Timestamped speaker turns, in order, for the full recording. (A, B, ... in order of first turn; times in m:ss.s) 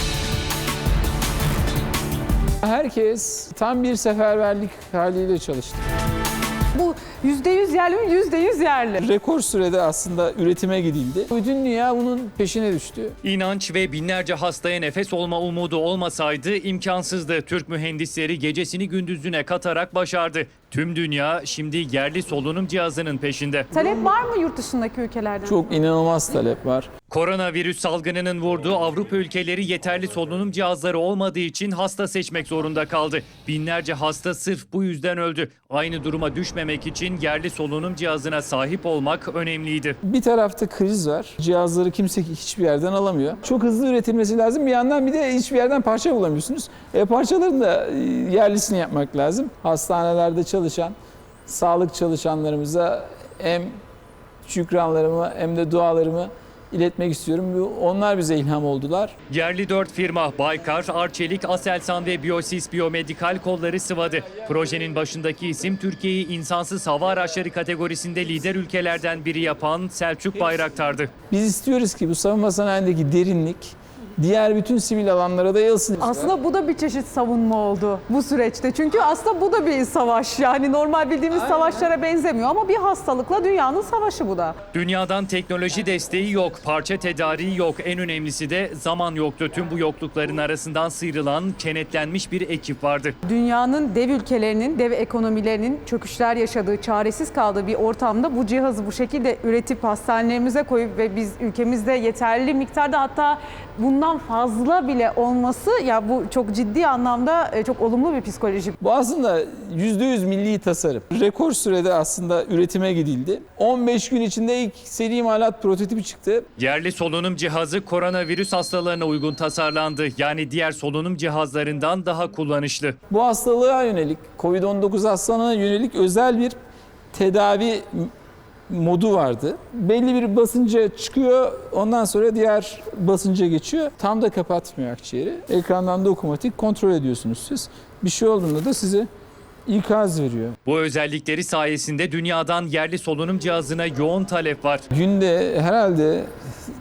0:02.6-0:05.8 A
0:06.7-0:09.0 B
0:09.0-0:13.2 A
0:13.2-0:23.7 C
0:23.7-0:25.6 B
0:25.4-0:26.9 A
0:27.1-0:40.0 C
0:40.0-0:50.9 A
0:51.4-0:53.7 A
0:54.4-0:59.1 A
0:59.3-1:11.1 C
1:11.3-1:16.3 A
1:16.0-1:24.6 B
1:24.7-1:33.1 C
1:33.2-1:48.8 B
1:48.8-1:56.4 A
1:56.6-2:03.0 C
2:03.1-2:06.6 A
2:07.1-2:08.1 A
2:08.7-2:19.1 A
2:19.7-2:20.6 A
2:20.6-2:24.8 C
2:24.9-2:26.3 A